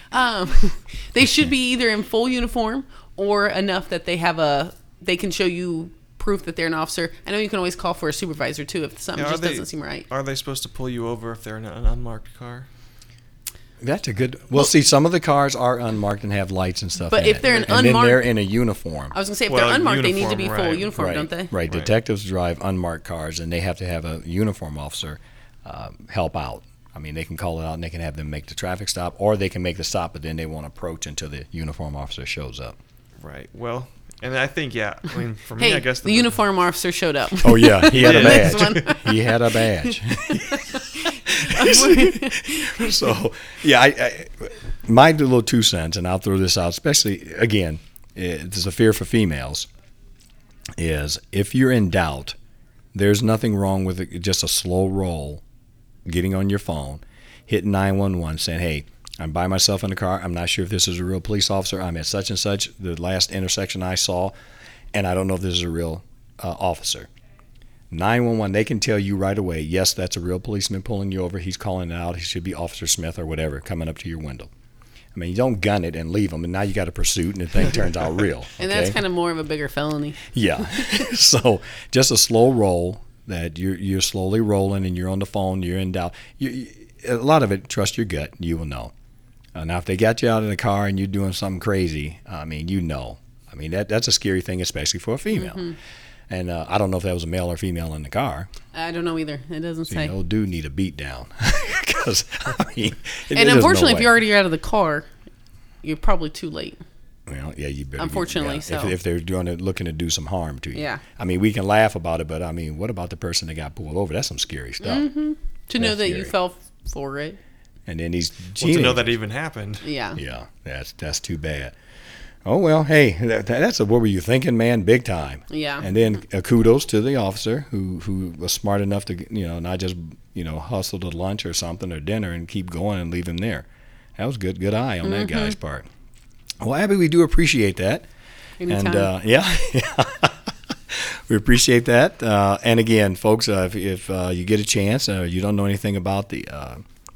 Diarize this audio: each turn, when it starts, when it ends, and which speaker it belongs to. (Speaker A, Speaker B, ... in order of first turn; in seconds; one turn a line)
Speaker A: 0.1-10.1
Speaker B: 9.2-12.7
Speaker C: 13.8-19.1
Speaker A: 17.1-18.2
Speaker B: 17.4-17.7
Speaker A: 19.1-21.5
Speaker B: 19.5-20.9
Speaker C: 20.9-32.8
Speaker B: 21.7-21.9
Speaker B: 33.2-36.4
Speaker A: 35.6-43.1
Speaker C: 37.4-40.6
Speaker B: 37.9-38.9
Speaker C: 41.2-49.7
Speaker C: 50.8-52.4
Speaker C: 52.9-55.4
Speaker C: 56.0-64.3
Speaker C: 64.9-67.1
Speaker C: 67.9-74.5
Speaker C: 75.1-79.0
Speaker A: 78.6-81.0
Speaker C: 80.3-88.9
Speaker C: 89.5-95.7
Speaker A: 95.3-95.8
Speaker C: 96.3-98.5
Speaker A: 98.7-100.1
Speaker C: 99.9-104.1
Speaker A: 103.3-105.1
Speaker A: 105.8-106.8
Speaker C: 107.3-115.1
Speaker A: 108.0-109.0
Speaker A: 110.7-111.0
Speaker A: 114.8-117.4
Speaker C: 115.8-116.3
Speaker C: 117.9-119.2
Speaker B: 118.6-119.9
Speaker A: 119.8-120.2
Speaker C: 120.2-121.8
Speaker C: 122.4-135.9
Speaker A: 125.5-125.9
Speaker A: 135.0-135.6
Speaker C: 136.6-138.1
Speaker A: 138.6-139.1
Speaker C: 138.7-146.8